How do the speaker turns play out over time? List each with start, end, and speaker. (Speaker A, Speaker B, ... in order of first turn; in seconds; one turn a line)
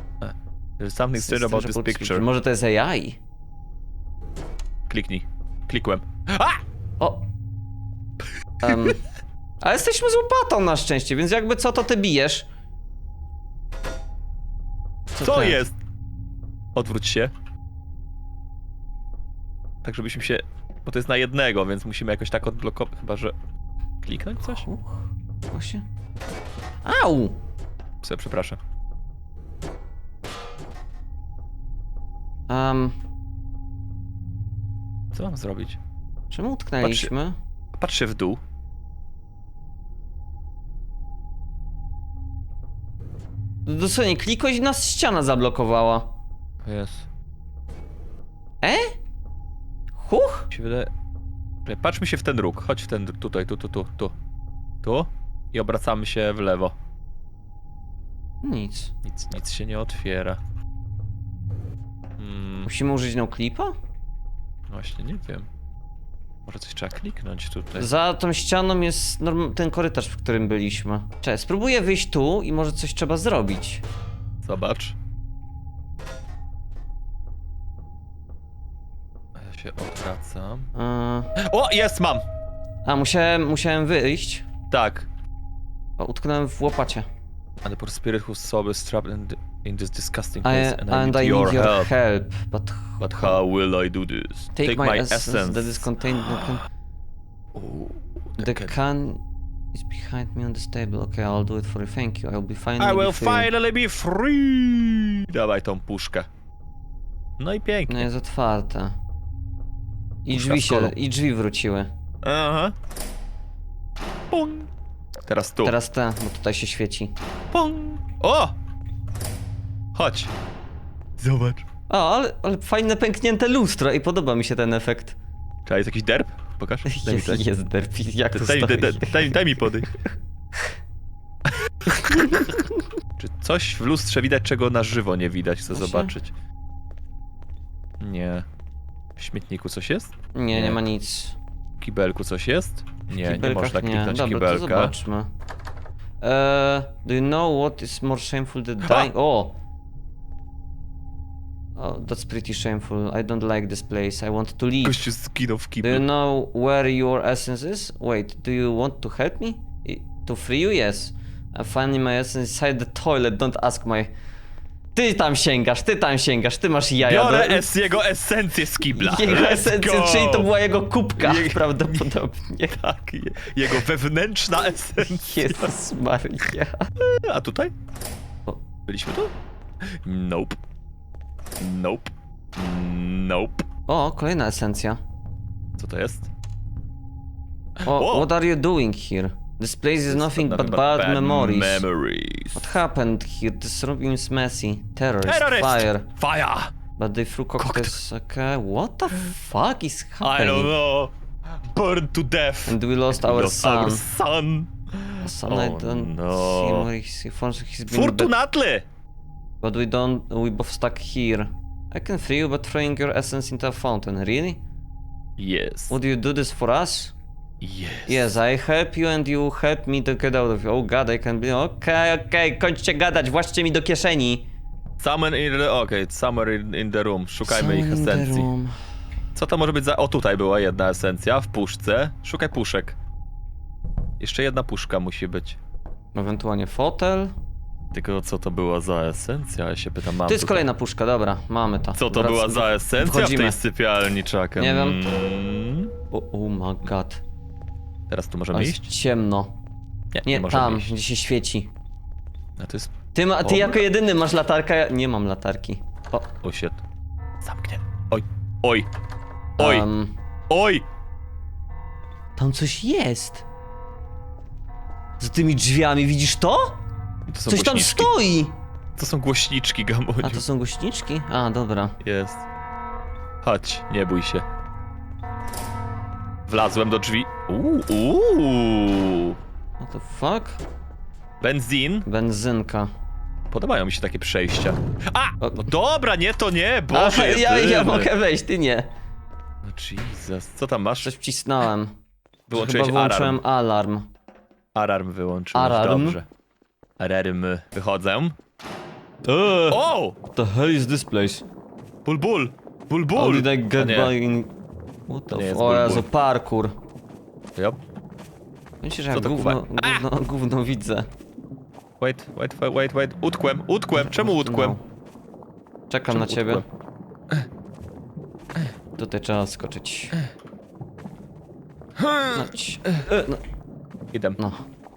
Speaker A: 0.2-2.2
Speaker B: 1.1-3.2
Speaker A: 4.9-6.6
Speaker B: 7.0-7.3
Speaker B: 8.6-9.0
Speaker A: 8.6-8.9
Speaker B: 9.6-12.5
Speaker B: 15.1-15.7
Speaker A: 15.2-15.8
Speaker A: 16.8-17.3
Speaker A: 19.8-23.3
Speaker A: 24.0-24.7
Speaker B: 24.4-25.8
Speaker B: 26.8-27.4
Speaker A: 28.0-28.6
Speaker B: 32.5-33.0
Speaker A: 35.1-35.8
Speaker B: 36.3-37.4
Speaker A: 36.8-37.1
Speaker A: 37.8-38.4
Speaker B: 43.6-46.1
Speaker A: 46.6-47.1
Speaker B: 48.6-48.9
Speaker B: 50.0-50.5
Speaker A: 50.5-50.9
Speaker A: 51.6-54.1
Speaker A: 54.8-56.8
Speaker B: 58.4-58.9
Speaker A: 59.0-60.4
Speaker A: 62.2-62.7
Speaker B: 62.6-63.7
Speaker A: 64.7-65.5
Speaker A: 66.4-67.9
Speaker B: 67.8-73.8
Speaker A: 74.4-75.0
Speaker A: 79.3-80.7
Speaker B: 80.8-81.3
Speaker A: 81.3-82.2
Speaker B: 82.8-84.4
Speaker A: 84.7-85.1
Speaker B: 86.0-87.1
Speaker A: 87.6-91.9
Speaker B: 90.4-93.4
Speaker A: 93.0-96.5
Speaker B: 94.5-96.7
Speaker A: 97.5-98.8
Speaker B: 98.4-99.2
Speaker B: 99.7-103.5
Speaker A: 102.8-106.3
Speaker A: 107.4-108.1
Speaker B: 107.9-108.9
Speaker B: 110.2-111.9
Speaker A: 110.3-110.9
Speaker A: 112.2-112.7
Speaker A: 114.3-114.7
Speaker A: 115.2-115.8
Speaker B: 115.6-117.1
Speaker A: 117.5-118.5
Speaker A: 119.9-120.3
Speaker A: 121.2-121.6
Speaker B: 121.9-125.2
Speaker A: 125.7-127.4
Speaker B: 126.8-129.9
Speaker A: 128.3-129.9
Speaker A: 131.4-132.5
Speaker B: 131.9-132.8
Speaker A: 133.2-136.3
Speaker B: 135.7-136.1
Speaker A: 138.0-138.4
Speaker A: 139.2-140.8
Speaker B: 140.3-141.4
Speaker A: 141.8-144.9
Speaker B: 143.1-145.3
Speaker B: 146.2-149.6
Speaker A: 148.8-149.1
Speaker B: 151.8-155.1
Speaker A: 154.8-156.0
Speaker B: 155.8-164.1
Speaker B: 164.9-167.7
Speaker A: 167.0-170.5
Speaker B: 168.9-172.8
Speaker A: 171.2-172.2
Speaker A: 172.7-175.7
Speaker B: 175.0-176.9
Speaker A: 177.0-177.7
Speaker A: 178.9-179.3
Speaker A: 180.0-180.6
Speaker A: 181.6-183.6
Speaker B: 183.9-185.0
Speaker A: 185.8-186.3
Speaker A: 187.8-188.3
Speaker B: 187.8-191.8
Speaker A: 190.1-192.8
Speaker B: 192.5-196.1
Speaker A: 195.2-196.7
Speaker B: 197.0-200.7
Speaker A: 197.6-197.9
Speaker A: 200.2-206.9
Speaker B: 202.7-204.0
Speaker B: 205.2-208.3
Speaker A: 207.9-208.8
Speaker B: 209.6-214.6
Speaker A: 215.4-216.0
Speaker B: 215.9-217.1
Speaker A: 217.6-218.3
Speaker B: 218.1-224.5
Speaker A: 225.0-228.5
Speaker B: 227.4-228.8
Speaker A: 229.3-232.9
Speaker A: 234.2-235.6
Speaker B: 236.1-237.3
Speaker A: 237.9-240.7
Speaker B: 240.2-243.6
Speaker A: 241.9-245.9
Speaker B: 244.6-245.0
Speaker B: 246.1-247.2
Speaker A: 248.1-248.9
Speaker B: 248.5-249.5
Speaker A: 250.1-250.9
Speaker B: 250.2-251.7
Speaker A: 252.6-252.9
Speaker B: 253.1-256.3
Speaker A: 253.4-253.8
Speaker A: 256.4-256.8
Speaker A: 257.4-258.9
Speaker B: 259.6-260.2
Speaker A: 259.6-259.9
Speaker A: 260.5-260.8
Speaker B: 262.4-263.4
Speaker B: 265.2-266.8
Speaker A: 267.3-268.1
Speaker B: 267.5-268.6
Speaker A: 269.0-270.4
Speaker B: 270.2-272.0
Speaker A: 272.0-272.4
Speaker A: 273.4-274.4
Speaker A: 276.5-279.4
Speaker B: 279.8-280.6
Speaker A: 281.4-282.1
Speaker B: 282.0-282.9
Speaker A: 283.5-288.1
Speaker B: 285.4-285.7
Speaker B: 286.9-288.9
Speaker A: 289.6-291.1
Speaker B: 291.0-291.9
Speaker A: 292.5-293.4
Speaker B: 292.5-294.1
Speaker A: 294.8-296.2
Speaker B: 295.5-296.2
Speaker A: 297.0-298.4
Speaker B: 299.2-301.4
Speaker A: 299.7-300.2
Speaker A: 302.0-304.1
Speaker B: 303.1-304.5
Speaker B: 305.1-306.7
Speaker A: 305.3-306.1
Speaker B: 308.8-311.1
Speaker A: 309.1-310.0
Speaker A: 312.0-314.8
Speaker B: 314.1-314.8
Speaker B: 315.9-316.6
Speaker A: 316.1-316.6
Speaker B: 319.0-320.1
Speaker A: 322.0-323.0
Speaker B: 322.3-323.4
Speaker A: 324.1-324.4
Speaker B: 324.4-324.6